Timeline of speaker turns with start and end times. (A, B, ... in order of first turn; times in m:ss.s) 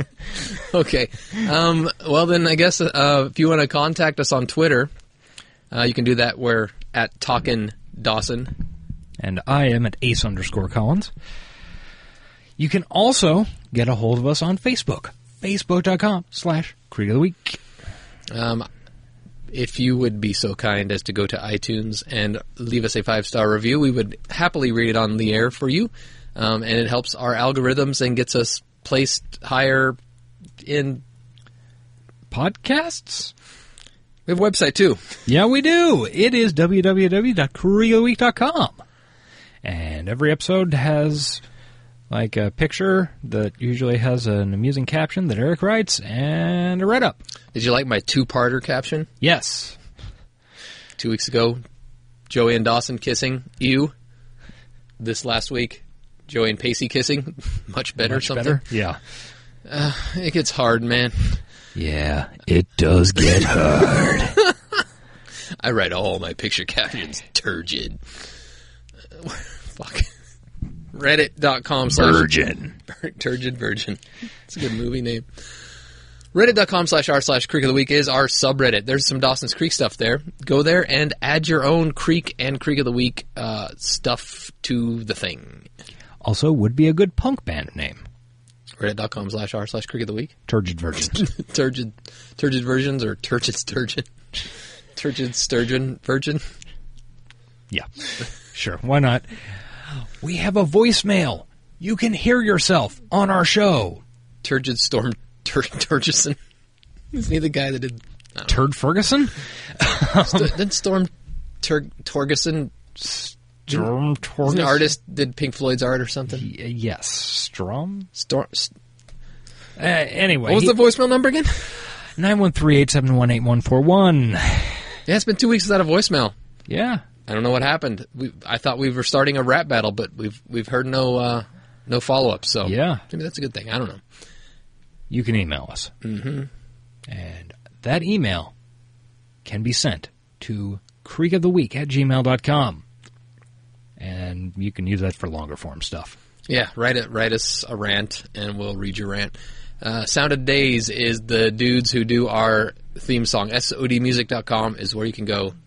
0:00.5-0:04.9 A
0:05.7-0:08.6 A
0:09.2-0:11.1 B
0:12.6-0:17.6 B
0:18.3-0:18.7 A
0:19.5-0:30.0 A
0:30.6-0:31.0 A
0:32.3-0:33.3 B
0:34.3-0:35.0 A
0:35.3-0:38.8 B
0:39.6-0:41.4 B
0:42.1-0:47.2 B
0:47.5-0:49.1 A
0:49.2-0:49.8 B
0:51.0-0:51.6 A
0:52.3-0:53.9 A
0:55.0-0:58.6 A
0:58.0-0:59.0 B
0:59.7-1:01.4 A
1:01.8-1:04.4 B
1:05.6-1:08.0 A
1:09.2-1:10.1 A
1:10.9-1:12.3 A
1:11.9-1:12.8 B
1:12.9-1:15.3 A
1:16.3-1:25.7 A
1:26.2-1:28.1 B
1:28.8-1:30.3 A
1:30.5-1:31.2 B
1:31.1-1:34.1 A
1:35.0-1:36.4 A
1:37.7-1:39.4 B
1:40.2-1:44.0 B
1:44.4-1:46.4 A
1:47.1-1:48.6 A
1:48.5-1:50.5 B
1:50.2-1:51.1 A
1:51.6-1:52.7 A
1:53.0-1:54.9 B
1:54.4-1:56.5 A
1:56.3-1:58.1 B
1:58.2-1:58.7 A
1:59.8-2:00.8 B
2:00.4-2:01.9 A
2:02.2-2:04.9 B
2:05.1-2:06.3 A
2:06.7-2:07.0 B
2:07.3-2:14.0 A
2:12.6-2:13.0 B
2:15.1-2:15.9 B
2:16.0-2:16.5 A
2:17.1-2:18.5 B
2:19.4-2:22.8 B
2:24.0-2:26.2 B
2:26.5-2:35.5 A